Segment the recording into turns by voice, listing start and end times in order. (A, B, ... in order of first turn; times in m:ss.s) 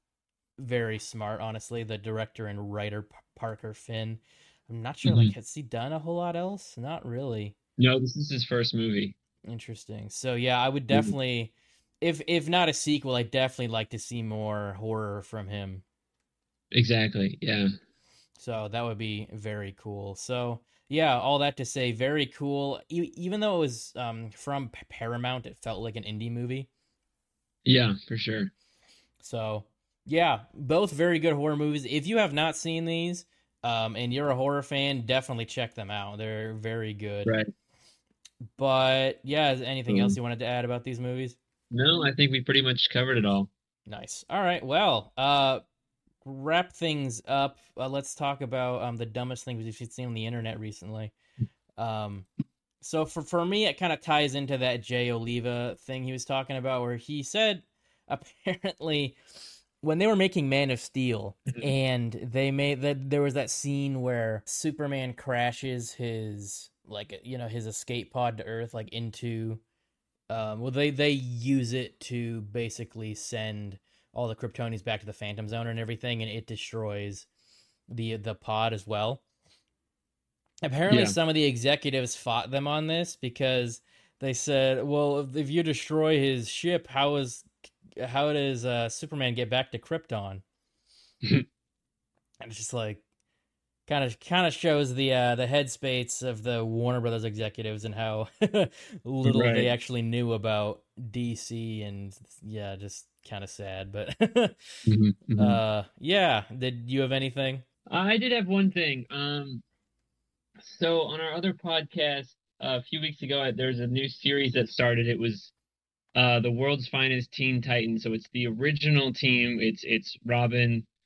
0:00.6-0:07.6 A
0:05.0-0:05.3 B
0:07.8-0:09.2 B
0:09.5-0:15.8 A
0:16.7-0:17.7 B
0:18.4-0:26.7 A
0:27.6-0:28.5 B
0:29.2-0:37.3 A
0:37.3-0:37.5 B
0:38.6-0:41.4 A
0:39.9-0:40.2 B
0:41.7-0:43.5 B
0:43.9-0:45.6 A
0:46.2-0:51.1 A
0:51.8-0:52.3 A
0:52.8-0:59.2 A
0:59.8-1:09.6 A
1:10.3-1:17.3 A
1:17.9-1:19.2 A
1:20.6-1:30.4 A
1:20.9-1:21.2 B
1:32.4-1:33.0 A
1:33.9-1:44.8 A
1:39.2-1:39.7 B
1:44.9-1:45.6 B
1:45.4-1:47.6 A
1:47.9-1:49.6 B
1:50.6-1:55.5 B
1:56.2-2:00.9 B